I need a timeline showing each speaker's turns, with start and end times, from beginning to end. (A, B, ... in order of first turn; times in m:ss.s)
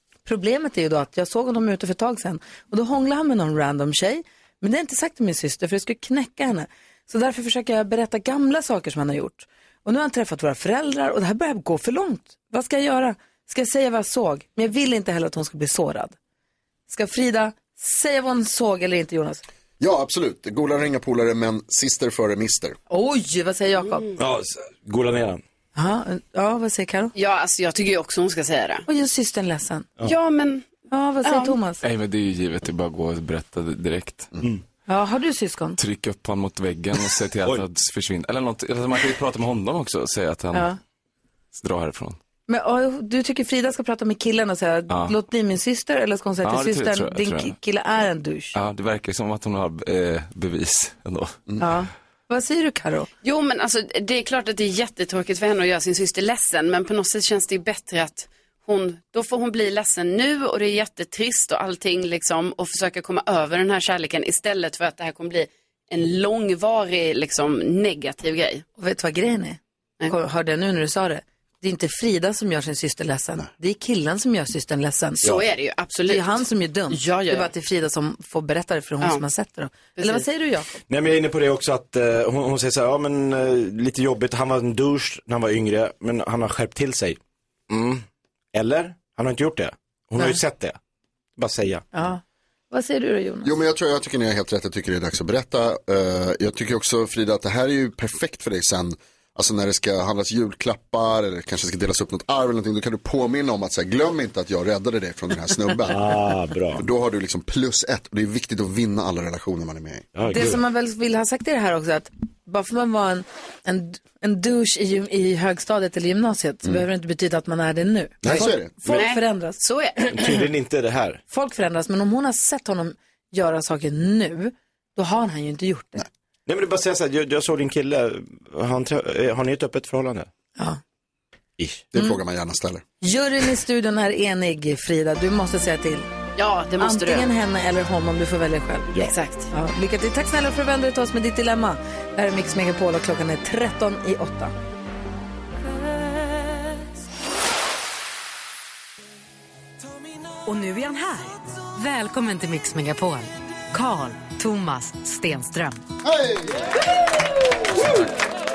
0:00.2-0:16.2 A
0:16.9-0:19.4 A
0:19.8-0:22.8 B
0:22.9-0:24.1 A
0:24.2-0:25.4 C
0:25.8-0:27.1 A
0:27.1-0:28.8 D
0:28.9-0:29.8 A
0:30.0-0:30.7 D
0:30.9-0:31.8 A
0:31.2-0:31.6 D
0:31.8-0:34.3 E
0:34.9-0:35.8 A
0:35.8-0:40.7 E
0:40.5-0:40.8 A
0:41.5-0:42.2 E
0:42.5-0:48.6 A
0:44.9-0:45.1 E
0:46.4-0:47.6 E
0:48.5-0:51.4 E
0:51.6-0:53.1 A
0:53.2-1:08.6 D
1:08.8-1:15.2 A
1:15.2-1:17.5 D
1:16.0-1:20.8 A
1:20.0-1:20.2 D
1:20.9-1:27.2 C
1:27.7-1:28.0 C
1:28.5-1:30.8 C
1:31.4-1:31.8 C
1:31.9-1:33.5 A
1:33.4-1:46.2 B
1:45.9-1:46.8 C
1:46.7-1:50.1 B
1:50.1-1:50.6 C
1:50.3-1:59.6 A
1:58.2-1:58.7 B
1:58.2-1:59.0 C
1:58.9-2:00.4 D
2:00.1-2:01.2 C
2:01.3-2:06.0 A
2:06.4-2:10.3 C
2:11.6-2:11.9 C
2:11.9-2:12.8 B
2:13.0-2:16.1 A
2:16.4-2:17.3 D
2:16.8-2:19.0 A
2:19.0-2:19.5 D
2:19.5-2:24.5 A
2:30.4-2:35.8 F
2:36.0-2:36.7 B
2:37.6-2:38.0 A